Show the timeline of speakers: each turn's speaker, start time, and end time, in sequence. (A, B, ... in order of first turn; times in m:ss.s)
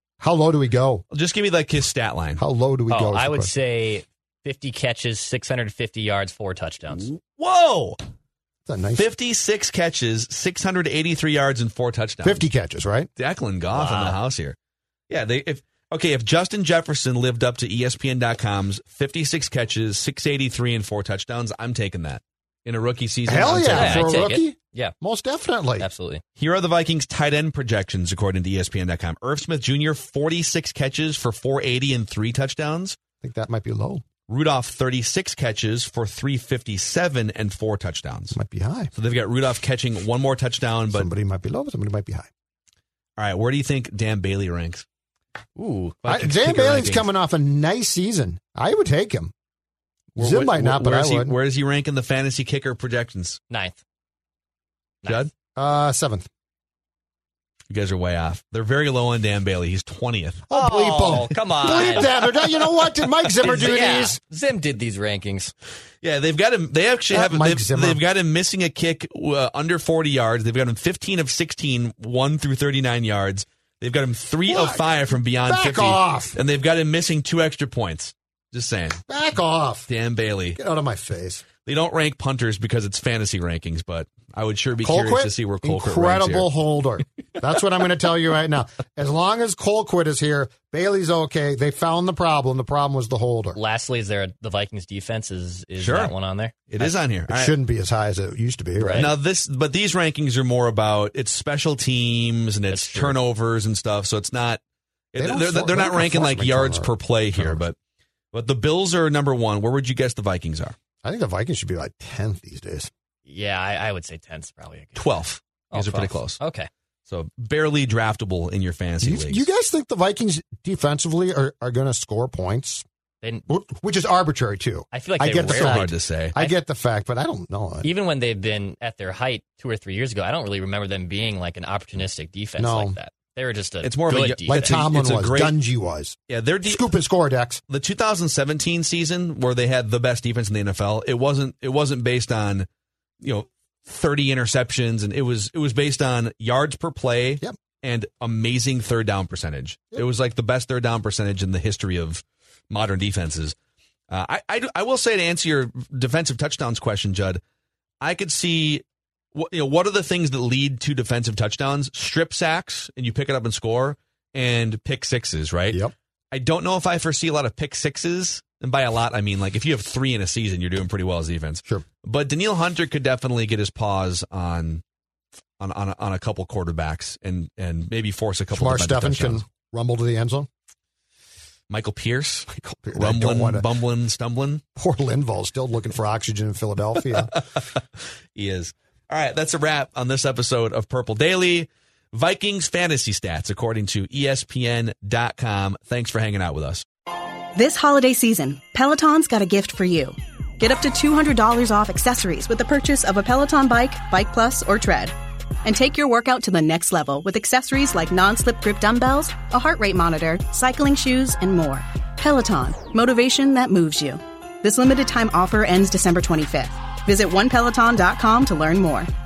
0:00.2-0:01.0 A
0:01.1-0:02.4 B
0:02.4-0:03.5 A
0:02.9-0:07.1 C
0:06.9-0:08.0 B
0:08.7-0:09.1 A
0:09.0-0:12.5 B
0:12.2-0:13.1 A
0:13.2-0:14.6 B
0:13.7-0:14.2 C
0:15.1-0:24.3 B
0:23.3-0:25.9 A
0:23.5-0:25.0 C
0:25.8-0:26.2 C
0:26.4-0:33.0 B
0:33.2-0:34.0 A
0:34.3-0:38.4 B
0:38.3-0:38.9 A
0:38.9-0:41.1 B
0:40.9-0:42.3 A
0:43.2-0:44.8 B
0:45.6-0:46.0 C
0:46.0-0:47.1 B
0:46.1-0:49.3 A
0:50.2-0:53.4 B
0:50.2-0:51.4 A
0:53.5-0:53.8 C
0:55.0-0:55.3 C
0:55.1-0:55.3 B
0:55.6-0:56.3 A
0:57.7-1:00.5 B
1:00.5-1:04.2 A
1:00.5-1:02.2 C
1:01.1-1:02.1 B
1:03.4-1:05.5 C
1:06.0-1:19.0 B
1:07.1-1:08.0 A
1:14.5-1:16.4 A
1:19.1-1:19.9 A
1:19.9-1:20.6 B
1:20.6-1:21.4 A
1:21.6-1:26.5 B
1:24.8-1:33.6 A
1:33.5-1:36.9 C
1:35.8-1:36.1 B
1:36.7-1:37.6 B
1:37.3-1:39.2 A
1:38.8-1:39.1 C
1:39.0-1:44.6 B
1:42.7-1:43.2 C
1:45.1-1:47.8 B
1:45.2-1:47.6 A
1:48.3-1:50.8 B
1:51.0-1:52.9 A
1:53.3-1:55.2 C
1:55.0-1:56.4 B
1:55.7-1:56.7 C
1:57.1-1:59.5 B
1:59.0-2:02.8 A
2:03.2-2:03.5 C
2:03.5-2:07.9 A
2:04.9-2:06.6 C
2:05.4-2:06.4 B
2:07.8-2:14.9 C
2:12.6-2:13.0 A
2:13.8-2:15.6 B
2:14.5-2:17.6 A
2:16.3-2:16.8 B
2:17.7-2:22.7 B
2:23.2-2:33.6 B
2:34.1-2:37.4 B
2:38.0-2:38.8 B
2:39.4-2:54.8 B
2:55.6-2:59.4 B
2:58.5-3:00.5 A
3:01.7-3:04.6 B
3:02.5-3:03.7 A
3:04.8-3:07.4 A
3:08.4-3:16.8 B
3:17.6-3:39.1 D